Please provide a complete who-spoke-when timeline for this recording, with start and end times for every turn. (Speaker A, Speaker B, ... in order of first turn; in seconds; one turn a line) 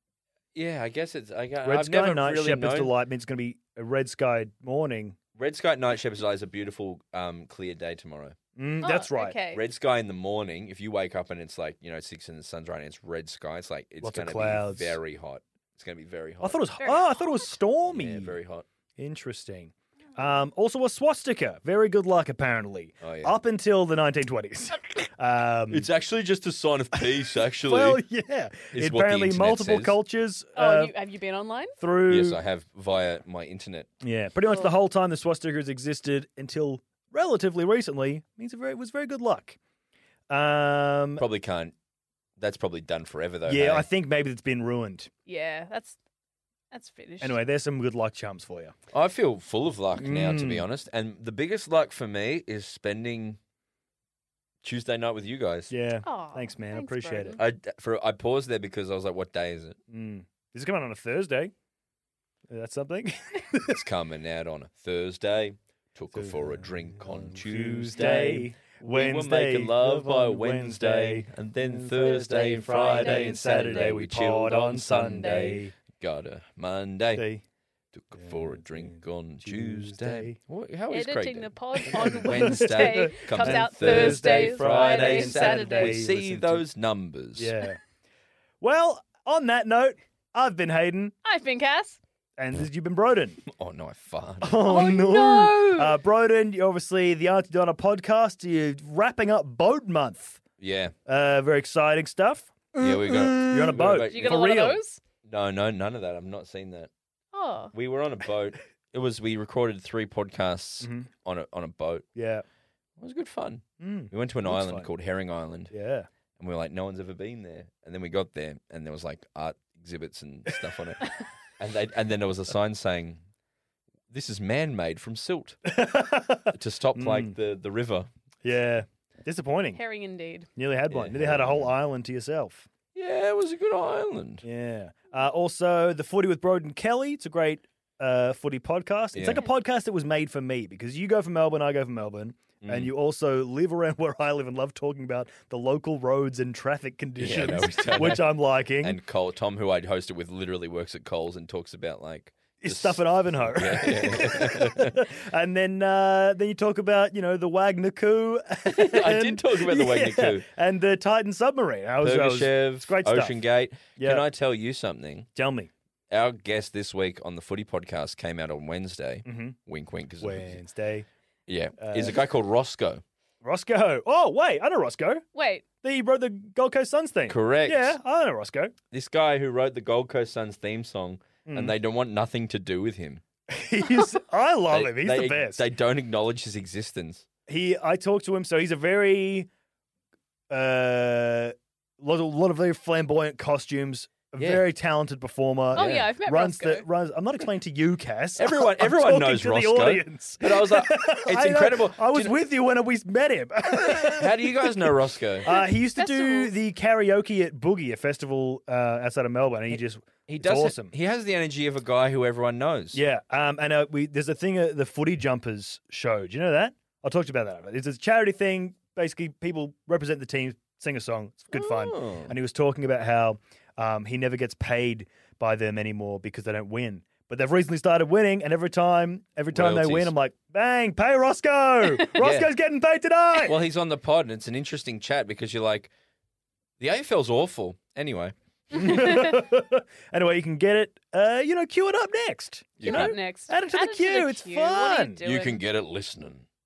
Speaker A: 0.6-2.9
Speaker B: 1.6-5.2
Speaker A: 5.4-8.4
Speaker B: 8.6-9.4
Speaker C: 8.8-9.6
Speaker A: 9.5-16.6
Speaker B: 14.0-15.0
Speaker B: 16.4-18.4
Speaker C: 16.8-17.5
Speaker A: 17.9-18.6
Speaker B: 19.0-25.9
Speaker A: 23.0-23.3
Speaker A: 25.7-28.0
Speaker B: 27.6-30.9
Speaker A: 28.7-30.0
Speaker C: 30.6-31.8
Speaker B: 31.8-32.4
Speaker A: 32.1-33.9
Speaker B: 34.0-39.6
Speaker B: 40.3-41.2
Speaker A: 41.2-41.7
Speaker A: 42.4-43.9
Speaker B: 43.5-45.1
Speaker C: 45.3-46.0
Speaker C: 46.7-47.4
Speaker B: 47.2-48.7
Speaker A: 48.9-53.4
Speaker B: 50.0-50.6
Speaker A: 54.6-55.7
Speaker B: 55.7-57.4
Speaker C: 56.0-57.4
Speaker A: 57.4-59.8
Speaker B: 59.9-61.5
Speaker B: 62.5-63.8
Speaker A: 63.7-77.2
Speaker B: 66.1-75.7
Speaker C: 72.1-74.0
Speaker C: 75.2-75.6
Speaker B: 77.1-77.4
Speaker A: 77.9-87.5
Speaker B: 78.1-80.4
Speaker C: 80.9-86.0
Speaker B: 81.8-86.6
Speaker B: 87.4-87.8
Speaker B: 88.6-91.1
Speaker C: 91.2-92.0
Speaker B: 92.4-93.4
Speaker A: 93.5-94.6
Speaker B: 94.4-100.4
Speaker C: 94.7-95.9
Speaker A: 100.6-100.9
Speaker B: 101.0-104.8
Speaker A: 102.8-104.5
Speaker C: 104.1-105.0
Speaker A: 105.2-106.9
Speaker C: 107.3-107.7
Speaker A: 107.7-112.0
Speaker B: 110.8-111.1
Speaker B: 112.1-112.4
Speaker A: 113.0-115.7
Speaker B: 113.8-114.9
Speaker B: 115.7-116.1
Speaker A: 116.4-123.2
Speaker A: 124.1-125.6
Speaker B: 125.7-127.3
Speaker A: 126.5-128.1
Speaker B: 128.4-129.8
Speaker C: 129.7-130.5
Speaker B: 130.6-132.7
Speaker A: 130.9-131.7
Speaker A: 132.9-134.4
Speaker B: 134.4-149.0
Speaker A: 139.1-139.4
Speaker A: 142.6-142.9
Speaker A: 147.2-155.0
Speaker B: 152.6-163.4
Speaker A: 158.7-160.4
Speaker A: 162.0-165.3
Speaker B: 164.0-164.3
Speaker B: 165.3-165.7
Speaker A: 166.1-170.6
Speaker B: 169.2-169.6
Speaker B: 170.2-171.1
Speaker A: 171.5-173.0
Speaker B: 171.8-172.2
Speaker B: 173.4-175.2
Speaker C: 175.3-175.6
Speaker B: 175.8-178.7
Speaker A: 177.3-177.9
Speaker A: 178.9-183.2
Speaker B: 181.4-181.7
Speaker B: 183.5-185.6
Speaker A: 184.7-187.2
Speaker B: 187.5-189.5
Speaker B: 190.5-210.9
Speaker A: 194.4-194.7
Speaker C: 195.7-196.8
Speaker A: 195.8-196.1
Speaker A: 198.4-202.4
Speaker A: 203.8-205.5
Speaker C: 205.9-206.5
Speaker A: 210.3-213.0
Speaker B: 212.9-233.6
Speaker A: 221.5-222.3
Speaker A: 229.5-230.1
Speaker A: 232.2-232.5
Speaker A: 233.4-235.9
Speaker A: 236.8-238.3
Speaker B: 238.7-245.2
Speaker C: 238.7-239.4
Speaker A: 242.8-243.1
Speaker C: 242.8-245.6
Speaker A: 245.2-246.4